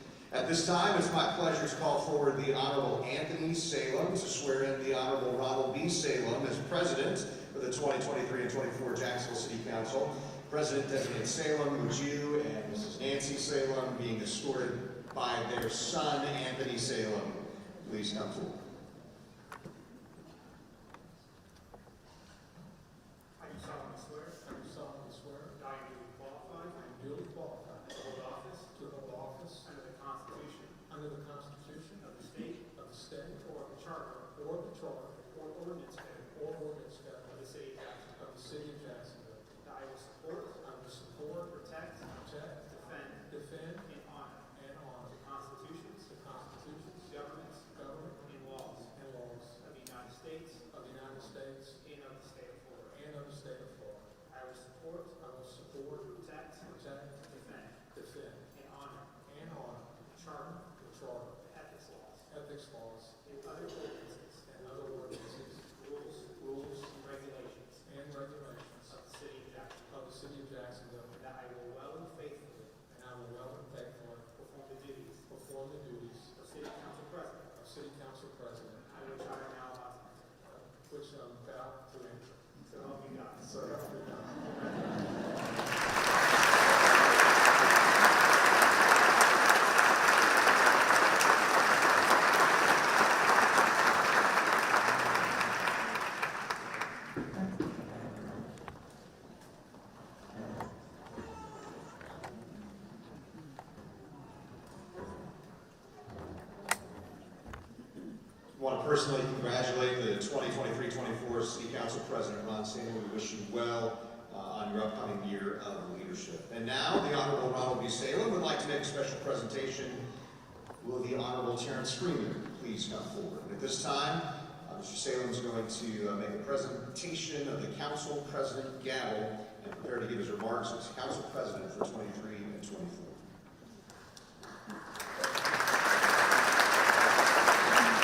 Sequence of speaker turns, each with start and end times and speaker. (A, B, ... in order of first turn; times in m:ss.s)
0:00.3-0:18.6 A
0:23.4-0:24.4 B
0:24.4-0:25.6 C
0:25.5-0:26.8 B
0:26.7-0:28.0 C
0:27.9-0:28.9 B
0:28.7-0:29.7 C
0:29.6-0:30.8 B
0:30.9-0:32.0 C
0:32.0-0:32.7 B
0:32.7-0:33.6 C
0:33.5-0:34.3 B
0:34.3-0:35.3 C
0:35.2-0:36.3 B
0:36.2-0:37.4 C
0:37.3-0:38.3 B
0:38.1-0:39.5 C
0:39.6-0:40.6 B
0:40.6-0:41.6 C
0:41.5-0:42.1 B
0:42.1-0:43.9 C
0:42.7-0:44.5 B
0:44.5-0:45.2 C
0:45.1-0:46.2 B
0:46.0-0:47.1 C
0:46.9-0:48.9 B
0:47.7-0:49.6 C
0:49.6-0:50.7 B
0:50.7-0:51.8 C
0:51.8-0:53.0 B
0:52.9-0:54.1 C
0:54.3-0:55.2 B
0:55.2-0:57.2 C
0:56.1-0:57.8 B
0:57.9-0:58.5 C
0:58.5-0:59.1 B
0:59.2-1:01.4 C
1:00.1-1:00.6 B
1:01.4-1:02.3 B
1:02.3-1:03.2 C
1:03.2-1:04.8 B
1:04.4-1:05.7 C
1:05.5-1:07.8 B
1:07.8-1:09.0 C
1:08.9-1:10.0 B
1:09.9-1:11.2 C
1:11.1-1:12.8 B
1:12.9-1:14.3 C
1:14.3-1:15.3 B
1:15.3-1:16.3 C
1:16.3-1:17.5 B
1:17.5-1:18.9 C
1:18.8-1:20.2 B
1:20.4-1:22.4 C
1:22.6-1:25.3 B
1:23.4-1:25.1 C
1:48.6-2:00.0 A
2:00.8-2:13.2 A